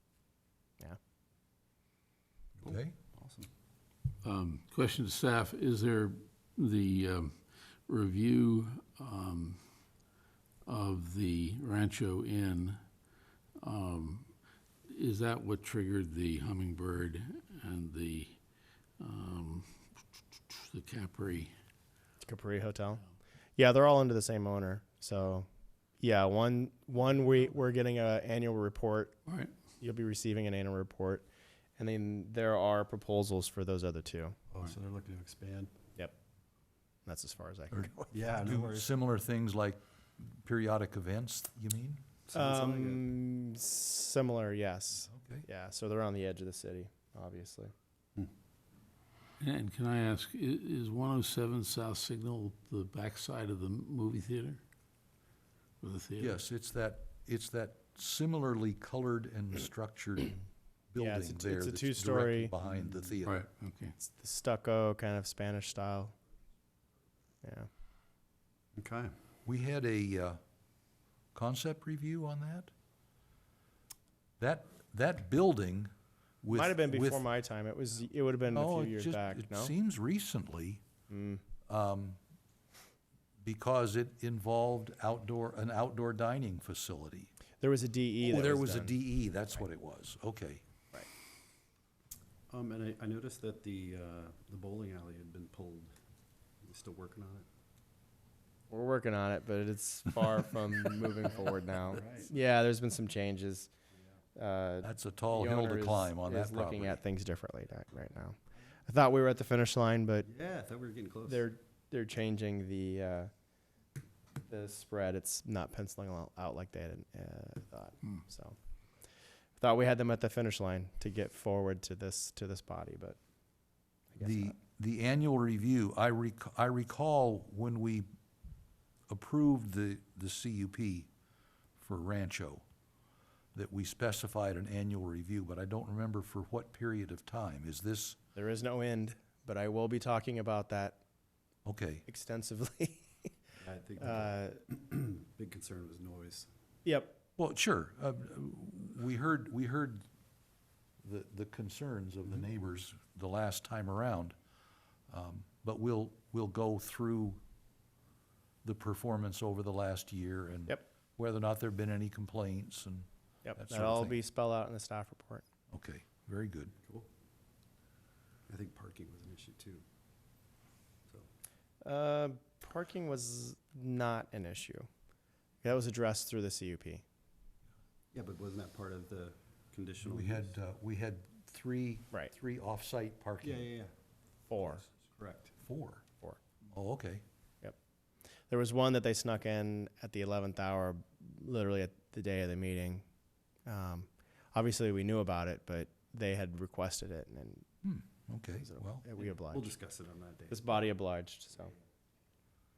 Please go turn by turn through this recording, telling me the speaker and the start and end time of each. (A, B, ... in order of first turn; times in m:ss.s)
0:02.6-0:03.5 A
0:02.7-0:02.9 B
0:04.2-0:09.6 C
0:10.7-0:12.8 C
0:13.6-0:14.3 C
0:14.9-0:18.4 C
0:19.0-0:19.8 C
0:20.5-0:21.5 C
0:22.2-0:23.0 D
0:23.6-0:25.5 D
0:26.0-0:29.2 D
0:29.3-0:29.5 C
0:29.8-0:31.3 D
0:31.8-0:34.4 D
0:34.5-0:35.7 A
0:37.0-0:38.1 D
0:37.7-0:42.0 B
0:38.1-0:38.9 A
0:42.3-0:43.1 A
0:42.3-0:47.7 D
0:45.1-0:45.4 B
0:49.4-0:54.6 C
0:55.8-0:56.4 C
0:56.2-1:00.4 B
1:00.9-1:03.4 B
1:01.0-1:02.5 D
1:03.2-1:04.0 C
1:04.0-1:06.1 D
1:07.4-1:07.7 D
1:08.8-1:09.1 A
1:09.4-1:10.4 B
1:11.3-1:12.7 B
1:14.4-1:15.9 B
1:16.4-1:17.2 B
1:16.5-1:19.7 D
1:18.5-1:20.8 B
1:21.1-1:21.4 D
1:21.7-1:22.2 B
1:23.4-1:27.3 B
1:27.6-1:29.0 D
1:28.2-1:30.6 B
1:32.5-1:35.9 A
1:36.6-1:37.5 A
1:38.7-1:43.7 D
1:41.9-1:42.3 A
1:44.4-1:50.3 D
1:44.8-1:47.0 B
1:50.2-1:51.5 A
1:51.3-1:53.3 D
1:54.5-1:58.6 D
1:59.6-2:03.2 D
2:04.1-2:04.6 D
2:04.2-2:08.1 B
2:09.1-2:11.1 B
2:11.8-2:12.6 B
2:13.6-2:18.2 B
2:18.4-2:21.0 D
2:21.6-2:22.0 B
2:22.1-2:23.3 D
2:23.6-2:26.5 A
2:24.0-2:24.6 D
2:26.8-2:27.2 D
2:27.4-2:30.0 B
2:31.0-2:34.4 B
2:35.1-2:37.4 B
2:38.6-2:44.2 B
2:43.4-2:45.4 D
2:45.7-2:46.7 B
2:48.5-2:49.8 A
2:51.8-2:54.9 D
2:55.6-2:57.0 D
2:58.1-3:00.5 A
3:00.0-3:03.7 B
3:03.4-3:03.9 A
3:04.5-3:04.9 D
3:05.0-3:05.5 A
3:05.6-3:06.0 B
3:06.7-3:07.2 B
3:08.5-3:13.1 D
3:13.7-3:17.7 D
3:17.8-3:19.1 B
3:18.6-3:19.7 D
3:19.1-3:20.8 A
3:20.5-3:21.8 D